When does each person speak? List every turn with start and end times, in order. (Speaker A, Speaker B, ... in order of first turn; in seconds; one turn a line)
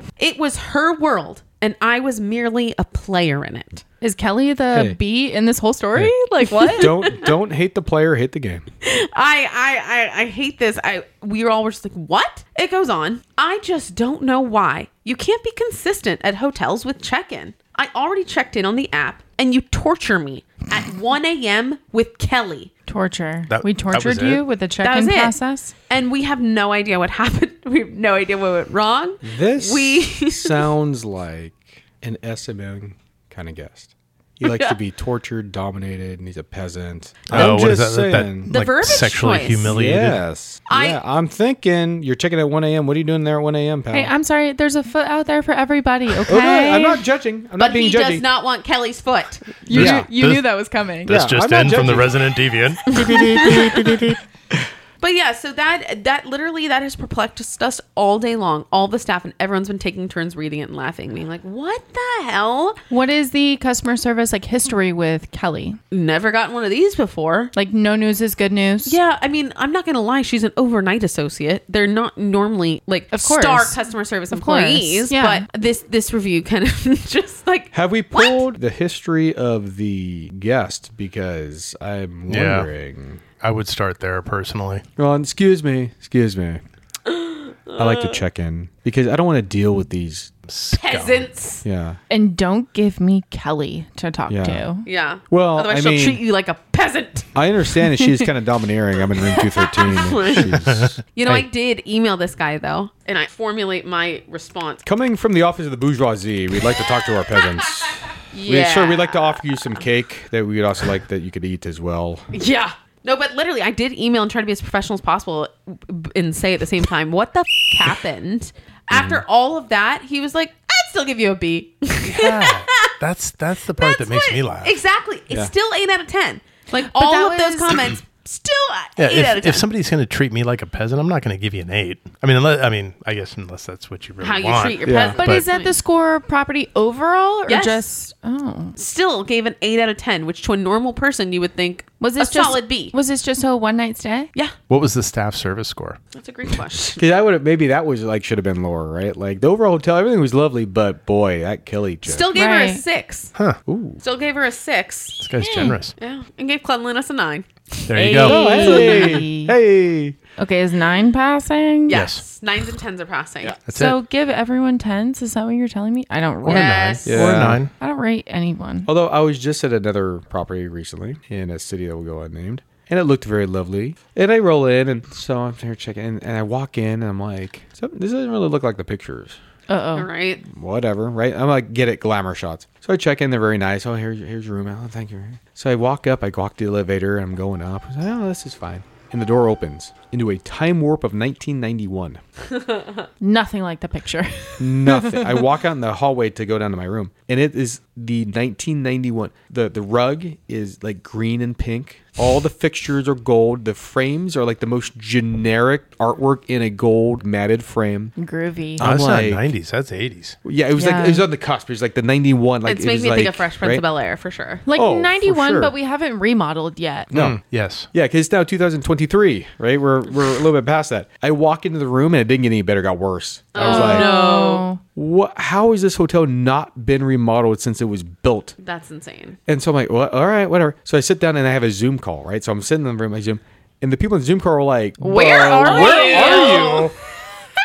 Speaker A: 0.2-3.8
Speaker B: 4.0-7.0
Speaker C: 4.7-5.0
Speaker A: 6.6-7.3
Speaker C: 6.8-8.7
Speaker A: 8.8-22.7
Speaker B: 22.9-25.7
Speaker D: 23.5-24.4
Speaker A: 24.8-25.4
Speaker A: 25.9-30.7
Speaker C: 29.2-38.5
Speaker A: 34.4-34.7
Speaker D: 37.3-40.2
Speaker A: 38.5-39.8
Speaker C: 39.7-44.1
Speaker A: 40.7-41.0
Speaker B: 43.9-47.0
Speaker C: 46.3-48.2
Speaker A: 47.6-49.6
Speaker B: 49.7-51.2
Speaker C: 49.7-50.1
Speaker D: 49.7-50.5
Speaker D: 51.1-54.2
Speaker C: 51.1-52.3
Speaker C: 52.9-54.1
Speaker A: 52.9-54.0
Speaker A: 55.0-62.8
Speaker B: 62.9-65.8
Speaker A: 65.9-67.5
Speaker B: 67.5-69.0
Speaker A: 68.8-78.4
Speaker B: 73.1-73.8
Speaker B: 74.3-75.5
Speaker C: 77.7-83.2
Speaker D: 82.3-82.7
Speaker D: 83.4-84.8
Speaker C: 85.0-86.6
Speaker A: 87.1-88.2
Speaker C: 87.8-90.3
Speaker D: 90.5-91.3
Speaker A: 90.7-91.6
Speaker C: 91.6-92.0
Speaker B: 92.1-94.9
Speaker C: 94.3-94.6
Speaker A: 94.8-97.3
Speaker C: 95.3-96.2
Speaker C: 97.3-101.5
Speaker A: 99.2-104.8
Speaker D: 100.7-101.0
Speaker C: 104.8-112.3
Speaker A: 108.3-109.5
Speaker A: 112.3-123.0
Speaker C: 118.9-119.2
Speaker D: 122.0-124.8
Speaker A: 123.8-129.7
Speaker B: 126.7-128.0
Speaker D: 129.0-135.4
Speaker A: 134.2-135.8
Speaker C: 134.8-135.2
Speaker B: 135.2-138.8
Speaker A: 137.5-137.8
Speaker A: 138.8-142.9
Speaker B: 142.0-144.3
Speaker D: 144.7-146.0
Speaker A: 146.1-147.0
Speaker C: 147.0-152.3
Speaker A: 152.1-153.3
Speaker B: 152.3-152.8
Speaker C: 153.7-154.0
Speaker A: 154.0-155.2
Speaker D: 155.2-155.9
Speaker B: 155.4-155.8
Speaker A: 156.0-159.2
Speaker D: 157.9-158.6
Speaker B: 157.9-159.6
Speaker C: 158.2-160.2
Speaker B: 160.4-162.0
Speaker A: 161.9-163.6
Speaker D: 161.9-162.2
Speaker D: 163.7-164.0
Speaker B: 163.7-168.9
Speaker D: 166.4-167.7
Speaker A: 166.5-167.2
Speaker C: 167.1-167.7
Speaker C: 168.9-179.4
Speaker B: 179.7-180.1
Speaker A: 180.0-180.4
Speaker C: 180.4-192.2
Speaker A: 192.6-192.8
Speaker B: 193.2-195.4
Speaker C: 194.6-208.1
Speaker B: 208.2-208.8
Speaker C: 208.8-209.5
Speaker D: 208.8-210.4
Speaker C: 210.4-213.8
Speaker B: 210.8-211.3
Speaker A: 212.7-214.7
Speaker B: 214.7-217.1
Speaker C: 214.7-215.7
Speaker C: 217.1-217.4
Speaker D: 217.1-217.9
Speaker C: 217.9-224.1
Speaker A: 223.5-224.7
Speaker B: 223.6-224.8
Speaker C: 224.9-228.6
Speaker A: 228.6-229.4
Speaker C: 229.5-237.0
Speaker A: 235.0-236.9
Speaker B: 235.0-236.8